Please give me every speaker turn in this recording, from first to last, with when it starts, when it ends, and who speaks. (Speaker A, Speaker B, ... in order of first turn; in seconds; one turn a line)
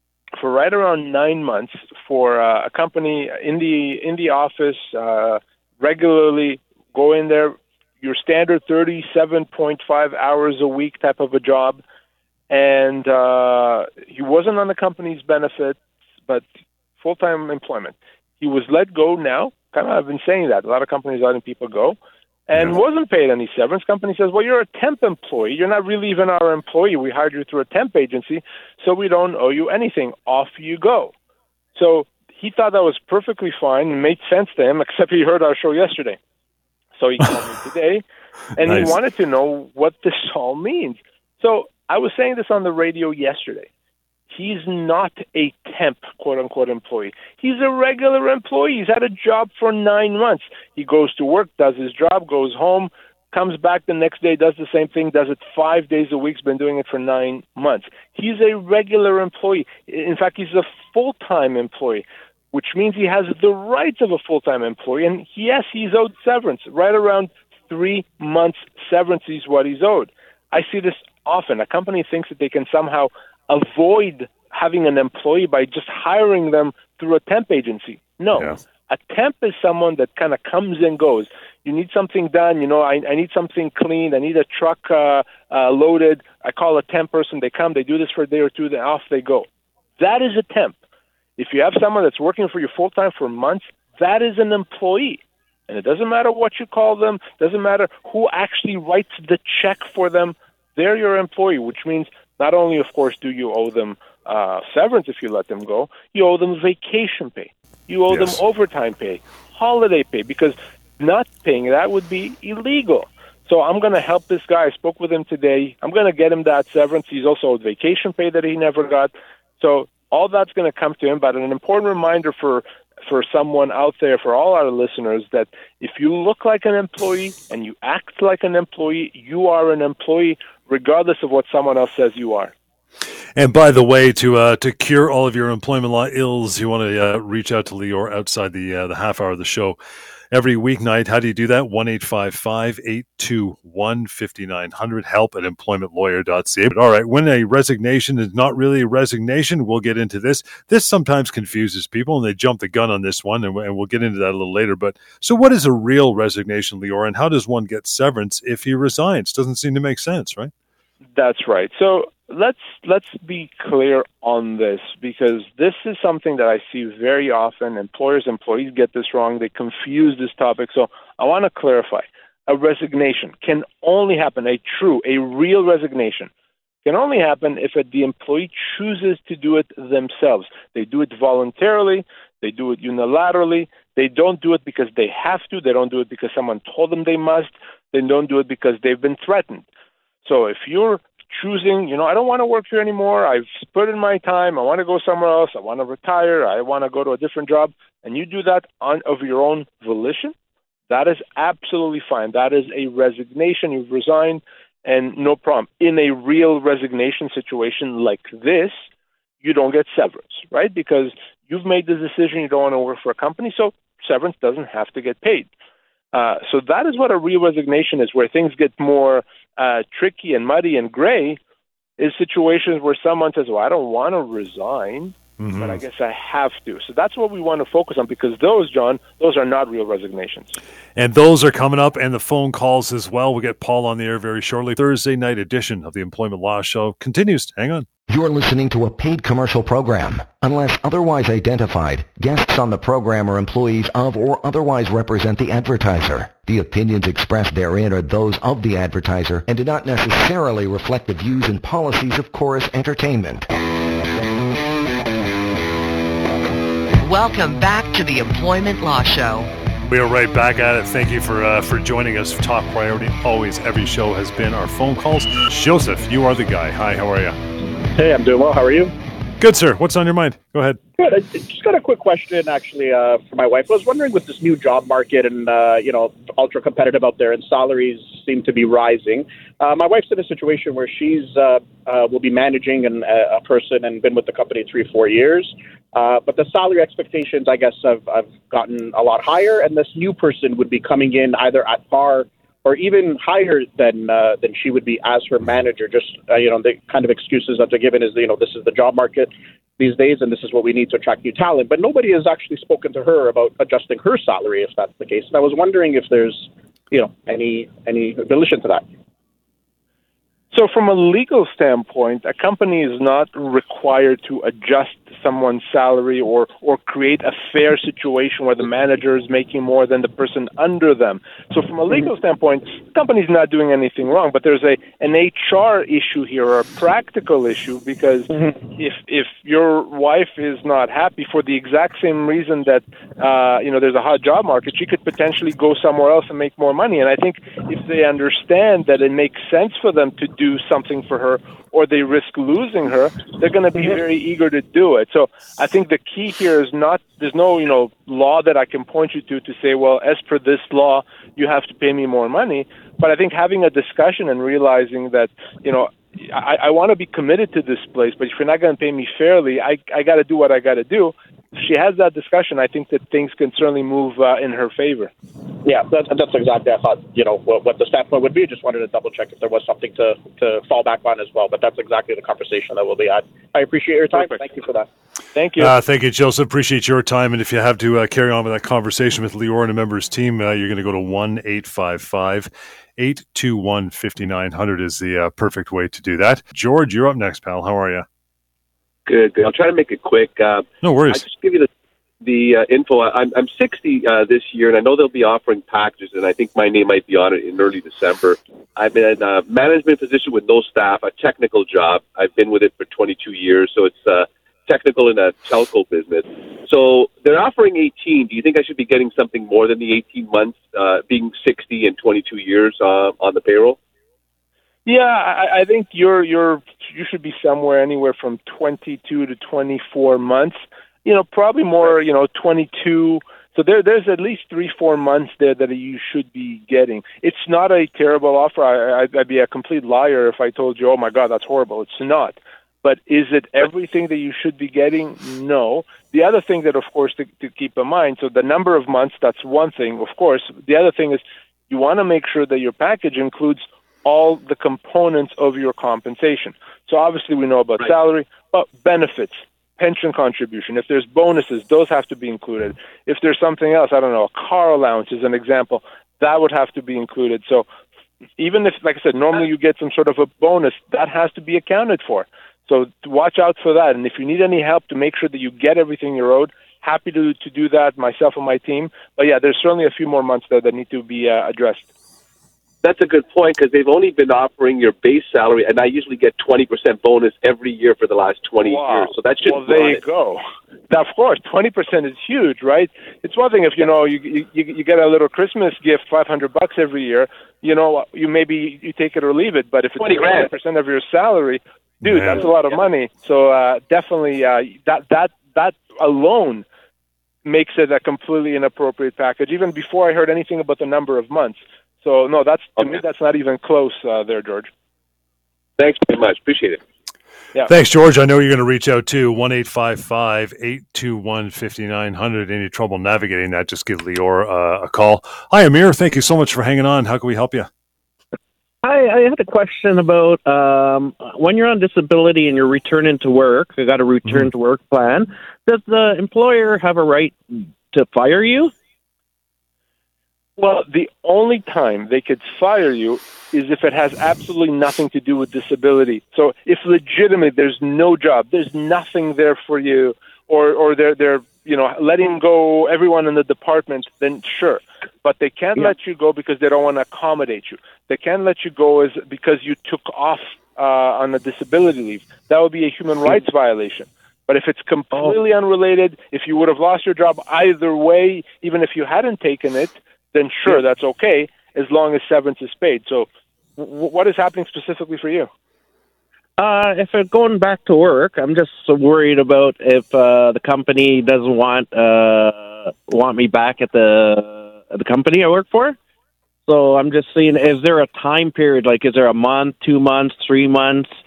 Speaker A: 0.3-11.8
Speaker A: 12.5-16.4
Speaker A: 17.0-22.0
Speaker A: 22.5-31.1
Speaker A: 31.8-36.2
Speaker A: 37.0-38.0
Speaker A: 38.5-43.7
Speaker B: 38.6-38.9
Speaker A: 44.3-89.5
Speaker A: 90.0-90.8
Speaker A: 91.4-132.5
Speaker B: 108.1-108.3
Speaker B: 133.3-139.8
Speaker B: 140.3-160.5
Speaker A: 161.2-176.3
Speaker A: 176.8-189.6
Speaker A: 190.2-200.3
Speaker A: 200.9-208.8
Speaker A: 209.4-215.5
Speaker A: 216.1-221.4
Speaker A: 222.0-230.6
Speaker B: 225.4-225.8
Speaker B: 230.9-237.8
Speaker C: 238.1-253.4
Speaker D: 257.0-259.5
Speaker B: 259.9-267.4
Speaker E: 267.9-268.9
Speaker B: 269.4-270.8
Speaker E: 271.0-308.9
Speaker A: 310.5-365.1
Speaker E: 365.6-374.9
Speaker A: 374.1-374.4
Speaker A: 375.3-375.7
Speaker B: 375.6-388.0
Speaker F: 389.1-391.7
Speaker B: 390.8-391.2
Speaker F: 392.2-413.8
Speaker A: 414.9-457.7
Speaker A: 458.4-471.9
Speaker F: 472.8-480.0
Speaker A: 478.6-496.6
Speaker F: 490.0-490.5
Speaker B: 492.0-492.4
Speaker A: 497.4-504.7
Speaker F: 505.8-506.8
Speaker B: 507.7-517.7
Speaker G: 518.8-528.7
Speaker A: 530.6-565.5
Speaker G: 566.6-576.0
Speaker G: 576.7-581.1